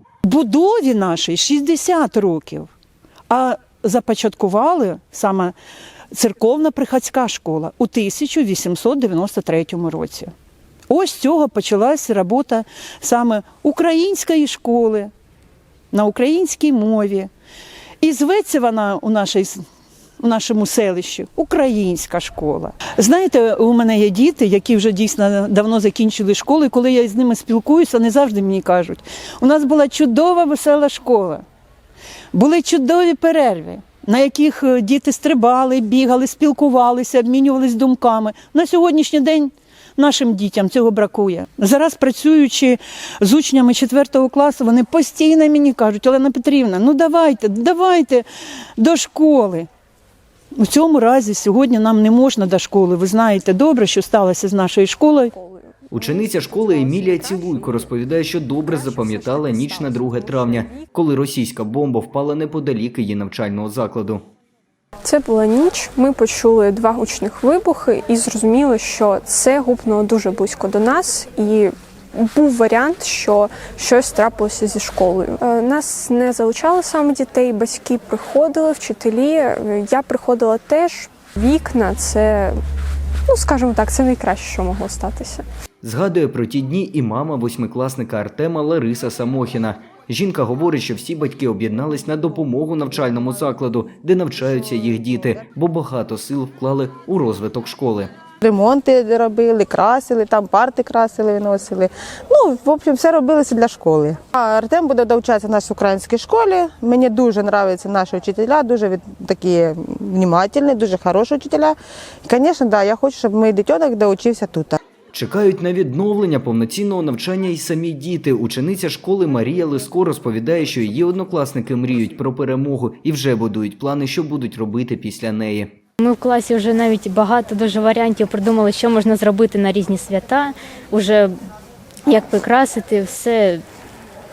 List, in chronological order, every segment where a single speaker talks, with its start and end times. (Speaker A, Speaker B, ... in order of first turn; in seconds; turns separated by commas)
Speaker A: 0.3-2.7, Speaker A: 3.3-5.5, Speaker A: 6.1-10.3, Speaker A: 10.9-15.1, Speaker A: 15.9-17.3, Speaker A: 18.0-19.6, Speaker A: 20.2-31.4, Speaker A: 32.3-48.2, Speaker A: 48.8-49.7, Speaker A: 50.5-55.3, Speaker B: 55.3-57.9, Speaker C: 55.9-64.2, Speaker B: 58.6-60.9, Speaker B: 65.0-82.5, Speaker B: 83.3-85.4, Speaker C: 85.8-98.1, Speaker D: 98.4-101.9, Speaker D: 102.5-111.7, Speaker D: 112.2-114.8, Speaker C: 115.1-125.7, Speaker E: 126.0-131.3, Speaker E: 132.1-133.6